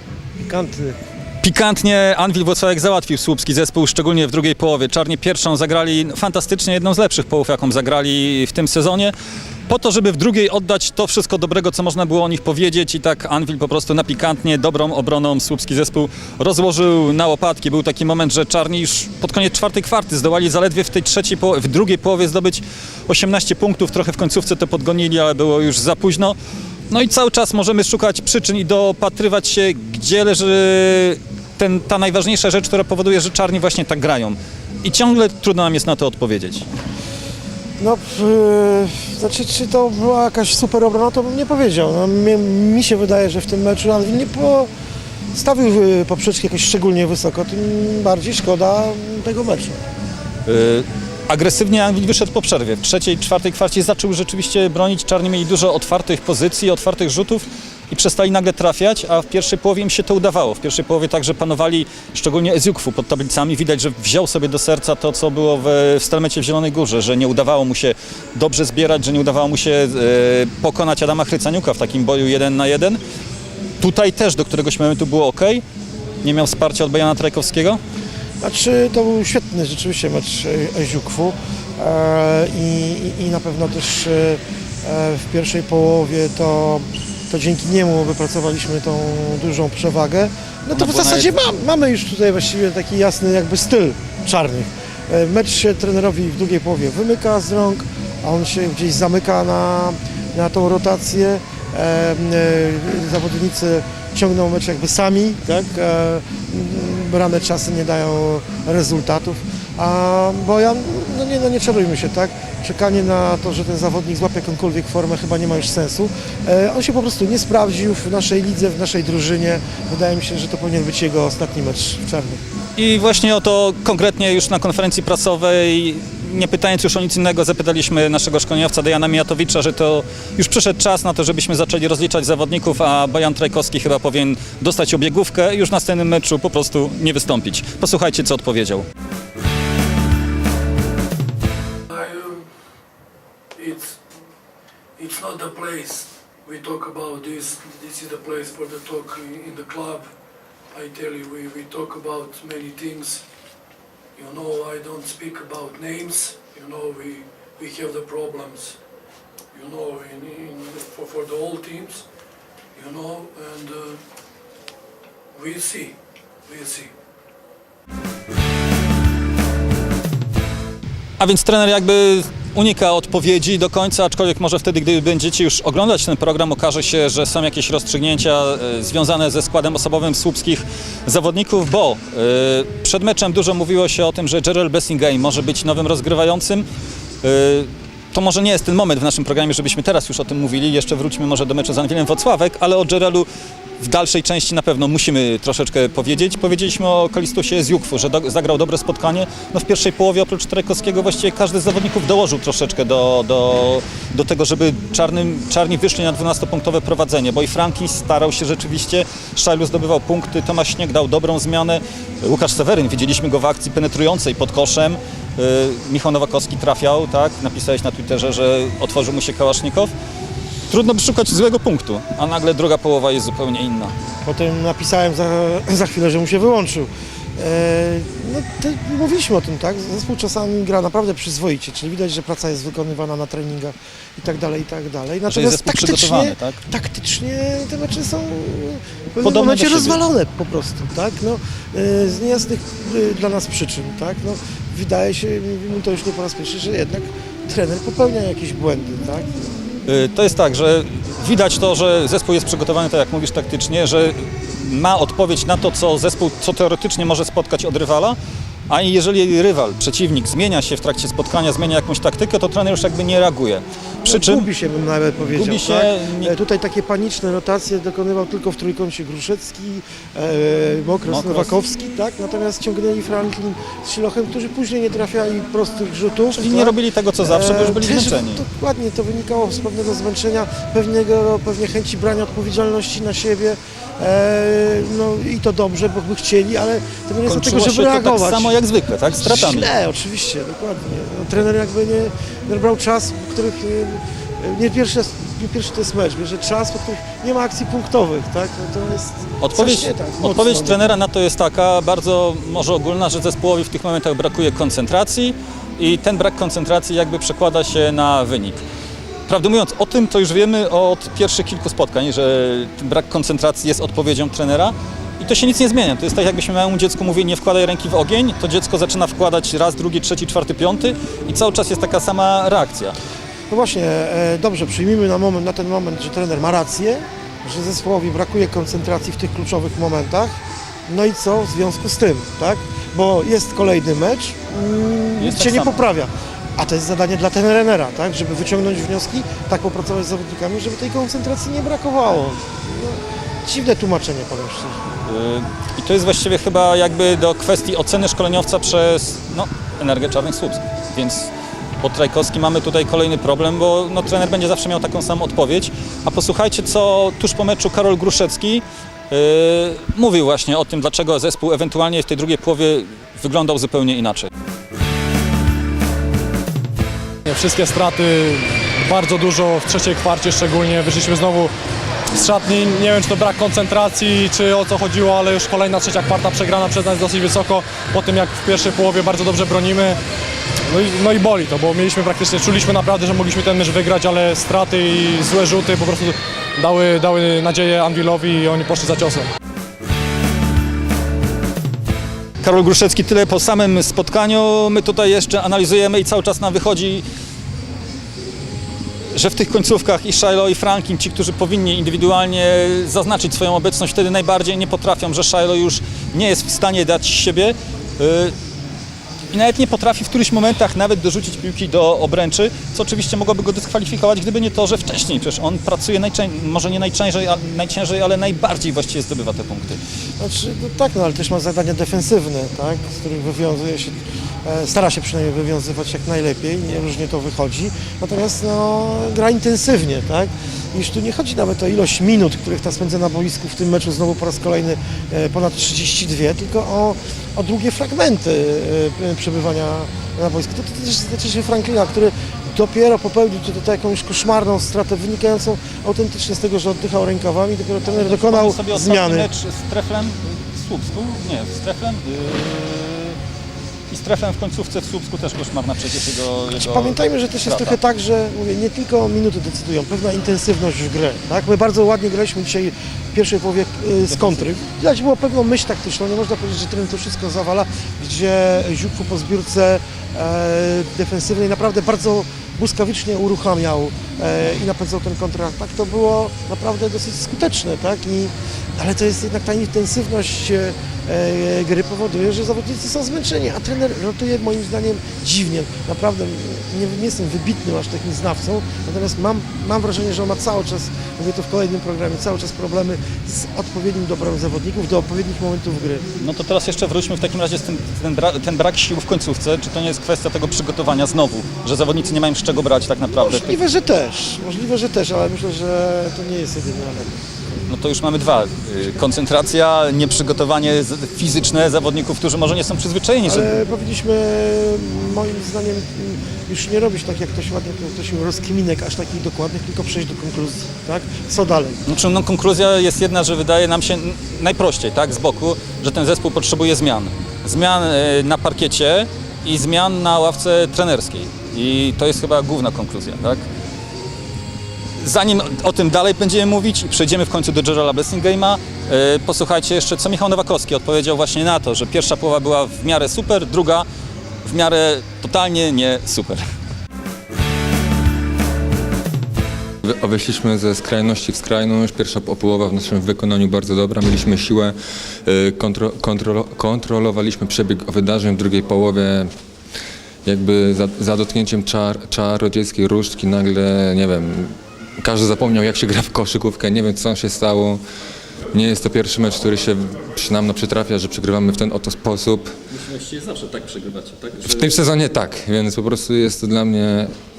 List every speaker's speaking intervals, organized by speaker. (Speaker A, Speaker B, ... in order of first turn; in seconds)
Speaker A: 0.5-0.9, 37.8-44.7, 45.3-49.8, 78.4-122.4, 224.2-249.5, 264.0-288.5, 289.1-300.9, 323.5-330.4, 330.9-344.8, 420.2-449.3, 456.5-496.1, 503.2-507.2, 513.2-521.8
Speaker B: 1.4-9.1, 9.7-26.4, 26.9-36.6, 50.5-73.0, 73.8-75.6, 76.2-77.8, 90.7-91.4, 122.8-138.8, 171.2-186.7, 187.2-193.3, 193.8-219.9, 220.7-223.9, 235.3-236.6, 239.2-240.0, 249.8-258.2, 258.7-264.5, 265.3-266.4, 271.1-271.5, 276.3-278.4, 287.2-289.7, 299.4-308.6, 309.3-322.9, 335.2-335.8, 345.0-351.3, 351.8-364.3, 392.4-397.0, 399.1-408.3, 409.3-419.8, 447.8-453.2, 453.9-457.8, 464.0-464.5, 496.2-503.6, 507.7-513.5, 521.9-533.4, 535.0-543.9, 544.4-546.4, 572.7-574.8
Speaker C: 141.9-142.2, 145.0-150.0, 150.7-153.2, 154.2-158.7, 159.5-161.9, 162.8-163.8, 165.3-165.9, 166.5-166.8
Speaker D: 367.2-371.5, 372.1-380.0, 380.7-389.3
Speaker E: 549.8-559.3, 560.2-567.8, 568.5-572.5, 574.4-577.1